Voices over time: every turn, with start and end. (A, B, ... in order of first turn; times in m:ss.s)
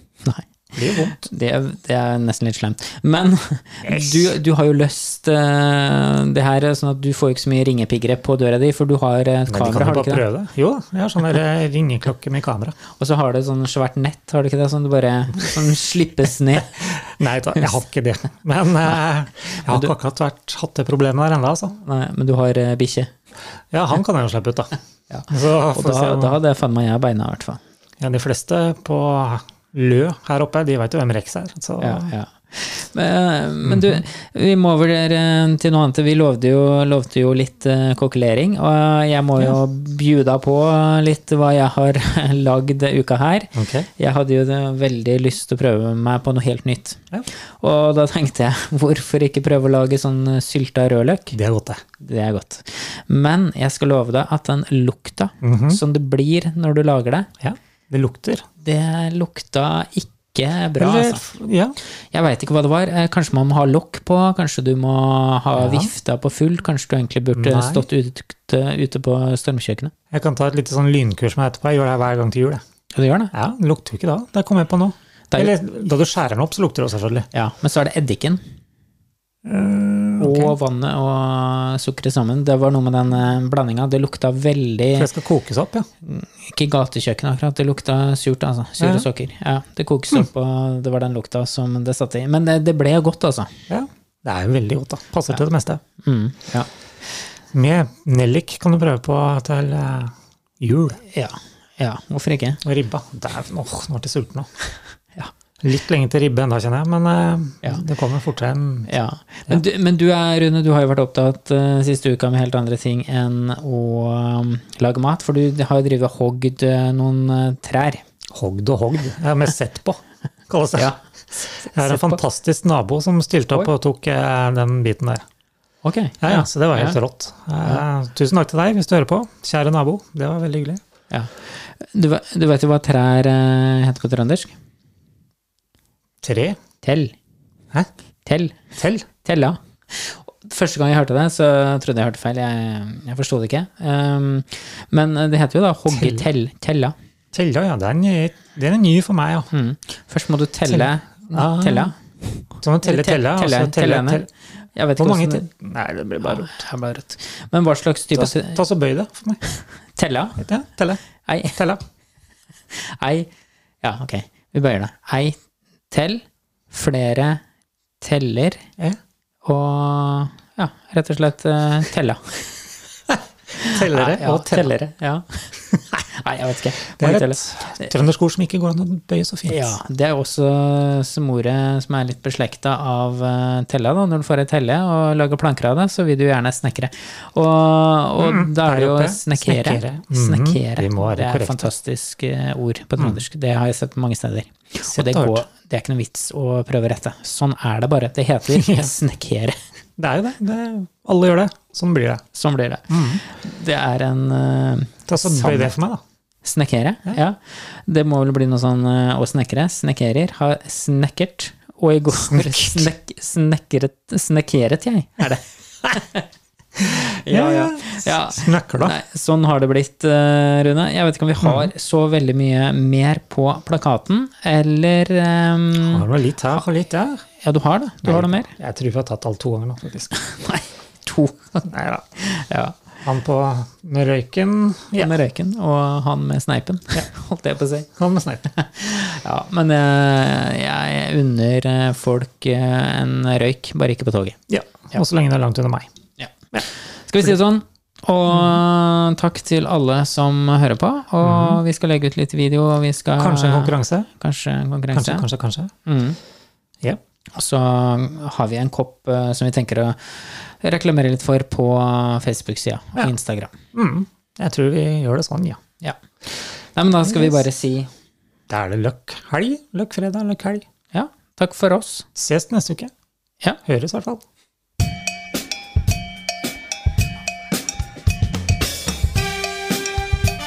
0:00.2-0:10.2 A
0:00.7-0:01.3 B
0:03.8-0:04.3 B
0:09.5-0:12.8 B
0:13.0-0:16.8 A
0:16.9-0:21.8 B
0:19.7-0:19.9 A
0:21.8-0:23.1 A
0:23.7-0:26.4 B
0:25.1-0:27.6 A
0:28.0-0:32.1 B
0:31.8-0:47.0 A
0:33.6-0:34.0 B
0:43.5-0:43.9 B
0:47.6-0:51.4 A
0:51.3-0:51.8 B
0:52.0-0:57.3 A
0:55.4-0:55.8 B
0:57.4-0:58.5 B
0:58.6-1:01.2 A
1:00.8-1:01.8 B
1:02.1-1:09.9 A
1:05.6-1:05.9 B
1:07.3-1:07.8 B
1:10.1-1:12.6 B
1:12.9-1:13.3 A
1:13.3-1:17.3 B
1:17.3-1:18.4 A
1:19.4-1:20.5 B
1:20.2-1:25.1 A
1:24.9-1:25.9 B
1:26.0-1:33.5 A
1:28.8-1:29.1 B
1:33.7-1:35.8 B
1:36.0-1:36.7 A
1:37.5-1:41.0 B
1:41.0-1:42.6 A
1:42.6-1:44.5 B
1:45.6-1:48.9 B
1:48.9-1:58.0 A
1:58.3-2:00.9 B
2:00.8-2:02.2 A
2:01.5-2:05.2 B
2:05.8-2:07.0 A
2:06.2-2:10.8 B
2:11.1-2:14.5 A
2:16.2-2:16.6 B
2:16.8-2:17.2 A
2:18.2-2:27.0 A
2:18.8-2:19.1 B
2:25.9-2:26.2 B
2:27.3-2:29.5 B
2:29.5-2:35.5 A
2:30.7-2:31.9 B
2:32.6-2:34.3 B
2:35.0-2:36.6 B
2:36.2-2:38.6 A
2:38.1-2:39.4 B
2:39.5-2:40.4 A
2:40.4-2:41.8 B
2:41.2-2:41.6 A
2:42.7-2:43.3 A
2:43.8-2:45.4 A
2:45.9-2:47.4 A
2:48.0-2:48.6 A
2:49.4-2:52.5 A
2:53.1-2:54.7 B
2:53.6-2:57.9 A
2:57.0-2:59.8 B
2:59.5-3:19.6 A
3:08.2-3:11.7 B
3:14.8-3:15.4 B
3:18.5-3:18.9 B
3:20.0-3:22.2 B
3:22.3-3:25.7 A
3:22.9-3:23.2 B
3:25.1-3:26.0 B
3:26.4-3:36.2 A
3:32.2-3:32.9 B
3:36.8-3:39.0 B
3:36.8-3:46.0 A
3:41.4-3:41.7 B
3:45.8-3:47.2 B
3:47.4-3:48.5 A
3:48.0-3:50.1 B
3:50.1-3:52.8 A
3:51.7-3:52.1 B
3:53.0-3:55.1 B
3:55.0-3:57.9 A
3:58.0-3:58.5 B
3:58.5-4:04.4 A
4:04.5-4:05.9 B
4:07.0-4:15.2 A
4:11.2-4:11.6 B
4:13.2-4:14.1 B
4:14.9-4:15.7 B
4:15.9-4:16.2 A
4:17.3-4:23.5 A
4:23.7-4:25.6 B
4:25.8-4:27.9 A
4:28.5-4:30.6 B
4:30.9-4:32.0 A
4:32.2-4:32.9 B
4:33.6-4:34.2 B